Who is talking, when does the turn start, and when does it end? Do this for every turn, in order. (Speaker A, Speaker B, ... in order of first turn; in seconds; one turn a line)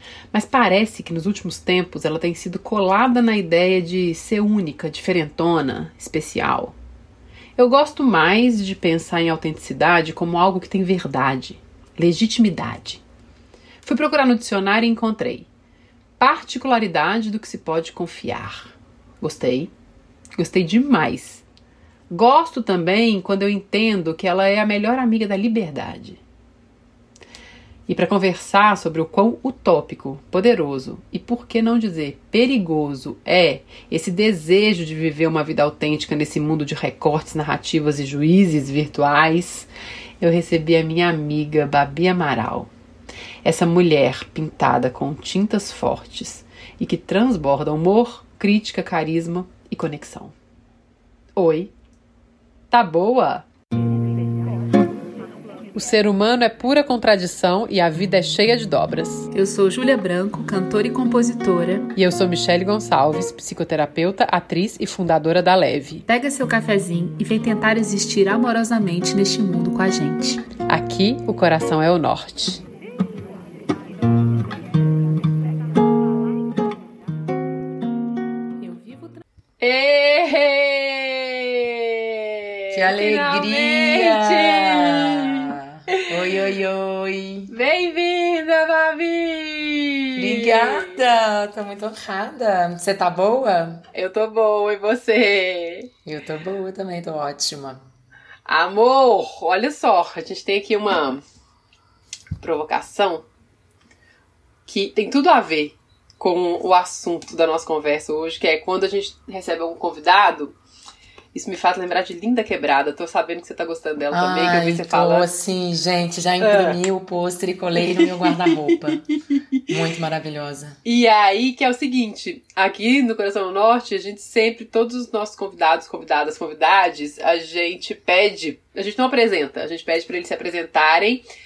Speaker A: 0.3-6.8
Speaker A: 7.6-13.0
Speaker A: 13.8-15.5
Speaker A: 16.2-19.7
Speaker A: 20.4-21.4
Speaker A: 22.1-26.2
Speaker A: 27.9-39.7
Speaker A: 40.2-42.7
Speaker A: 43.4-50.4
Speaker A: 51.4-51.7
Speaker A: 52.7-53.5
Speaker A: 55.8-59.3
Speaker B: 59.3-61.9
Speaker A: 62.0-66.0
Speaker B: 66.1-70.4
Speaker A: 70.7-72.6
Speaker B: 78.6-79.2
Speaker A: 79.6-85.4
Speaker C: 82.7-87.5
Speaker A: 87.5-91.0
Speaker C: 90.2-93.8
Speaker A: 93.9-95.9
Speaker C: 96.0-97.8
Speaker A: 98.5-101.2
Speaker A: 102.4-103.2
Speaker A: 104.7-110.5
Speaker A: 111.3-115.3
Speaker C: 114.1-119.0
Speaker A: 116.4-116.8
Speaker A: 117.8-118.8
Speaker C: 119.7-120.8
Speaker A: 120.8-131.2